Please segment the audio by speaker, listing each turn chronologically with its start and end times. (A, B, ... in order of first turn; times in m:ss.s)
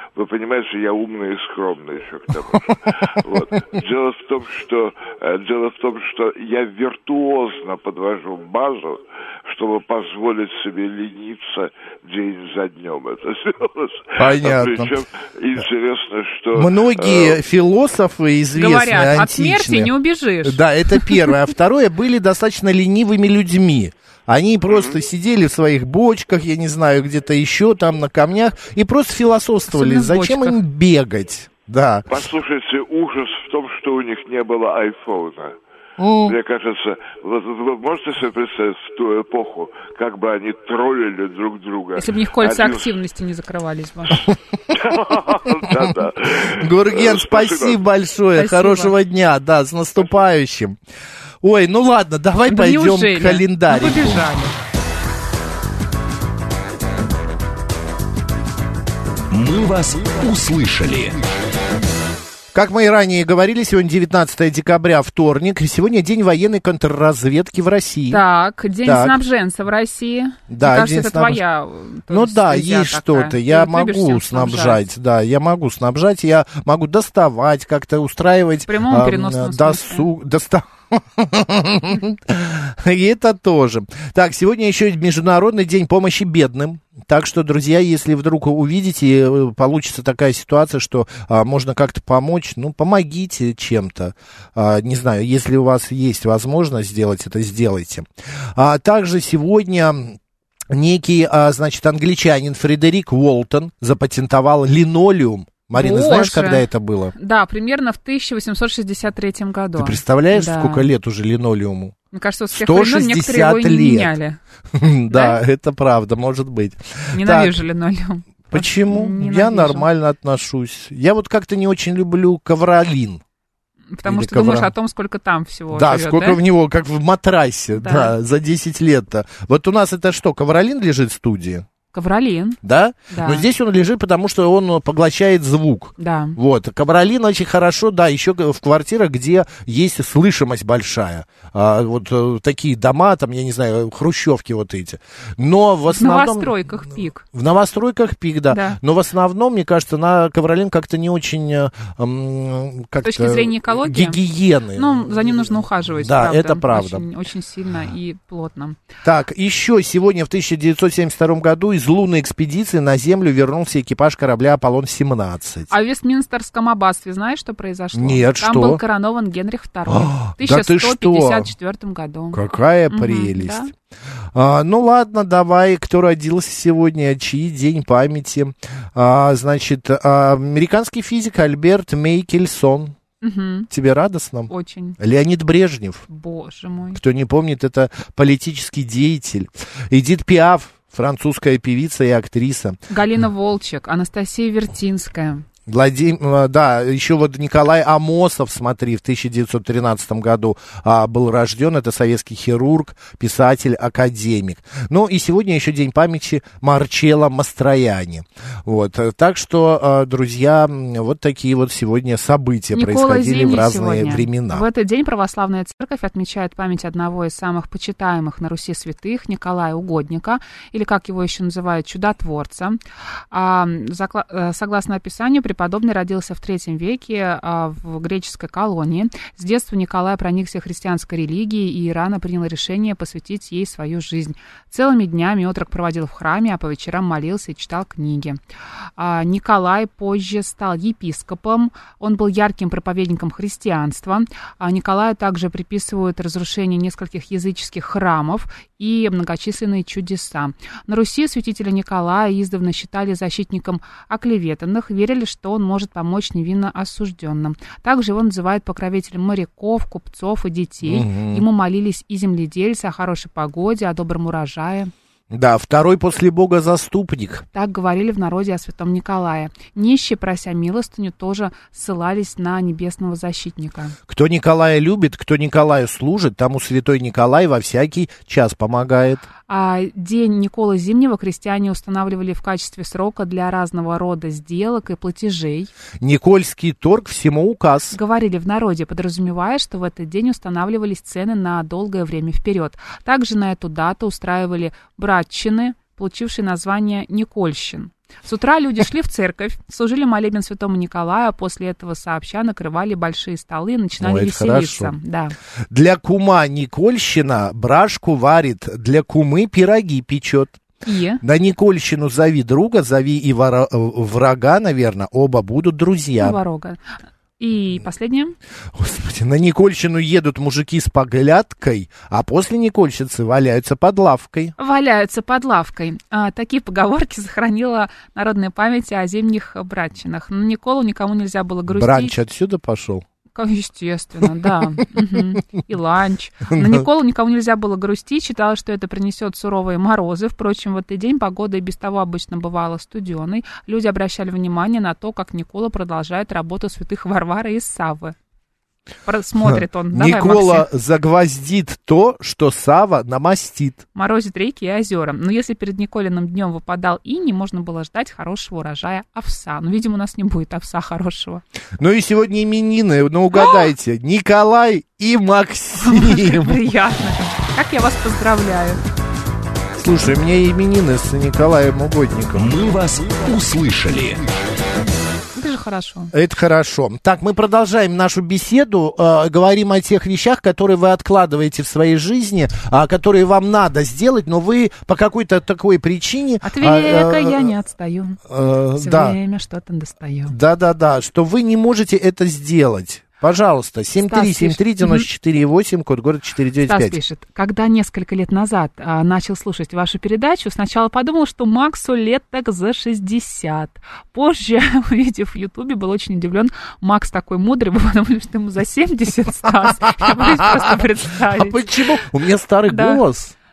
0:00.2-0:17.4 A
0:14.2-0:14.9 B
0:16.5-0:32.0 B
0:18.5-0:21.3 C
0:24.7-0:25.0 A
0:29.7-0:30.6 C
0:32.1-0:35.6 A
0:36.0-0:36.4 B
0:36.2-0:42.9 A
0:42.0-0:44.2 C
0:44.7-0:47.8 A
0:46.5-0:50.8 B
0:48.3-0:48.9 C
0:51.4-0:54.3 B
0:52.5-0:54.5 C
0:59.3-1:01.2 D
1:02.5-1:08.2 B
1:08.1-1:14.8 C
1:08.8-1:09.2 B
1:10.5-1:11.4 B
1:12.1-1:40.2 B
1:18.7-1:20.1 C
1:40.7-1:47.1 B
1:45.7-1:50.9 C
1:49.8-1:51.9 B
1:52.1-1:54.4 C
1:52.5-1:54.1 B
1:54.7-1:57.6 B
1:55.1-1:55.4 C
1:57.1-1:59.9 C
1:58.5-2:03.2 B
2:03.9-2:06.4 C
2:04.0-2:04.7 B
2:05.7-2:11.6 B
2:07.7-2:08.1 C
2:11.9-2:12.6 C
2:12.6-2:37.0 B
2:13.1-2:13.4 C
2:16.0-2:16.4 C
2:25.9-2:27.2 C
2:28.5-2:28.8 C
2:33.0-2:34.2 C
2:34.7-2:38.8 C
2:39.0-2:45.7 B
2:45.7-2:53.7 C
2:47.9-2:48.8 B
2:49.9-2:51.5 B
2:52.3-2:53.7 B
2:54.3-3:03.0 B
3:03.2-3:03.7 C
3:03.7-3:06.0 B
3:04.5-3:05.0 C
3:06.1-3:07.0 C
3:06.9-3:12.8 B
3:12.9-3:15.4 C
3:15.7-3:34.6 B
3:32.7-3:42.8 C
3:43.3-3:58.4 C
3:59.0-4:24.9 C
4:20.8-4:21.4 B
4:25.3-4:27.4 B
4:27.5-4:33.9 C
4:34.1-4:39.3 B
4:39.5-4:45.7 C
4:46.0-4:48.0 B
4:47.9-5:05.3 C
5:04.0-5:04.9 B
5:05.7-5:10.6 B
5:10.8-5:11.2 C
5:11.2-5:16.4 B
5:16.2-5:18.4 C
5:18.7-5:24.5 B
5:24.6-5:32.1 C
5:31.7-5:33.0 B
5:33.3-5:48.1 C
5:36.5-5:36.8 B
5:49.0-5:50.6 C
5:49.4-5:53.8 B
5:53.9-6:01.4 C
6:01.8-6:06.6 B
6:03.3-6:03.6 C
6:05.8-6:08.8 C
6:09.8-6:12.5 B
6:12.3-6:14.2 D
6:15.3-6:16.1 C
6:16.1-6:27.5 B
6:26.4-6:28.2 C
6:28.2-6:29.2 B
6:28.7-6:30.3 C
6:30.3-6:37.0 B
6:34.0-6:35.0 C
6:36.6-6:51.7 C
6:50.0-6:50.8 B
6:51.3-6:53.3 B
6:52.7-6:53.0 C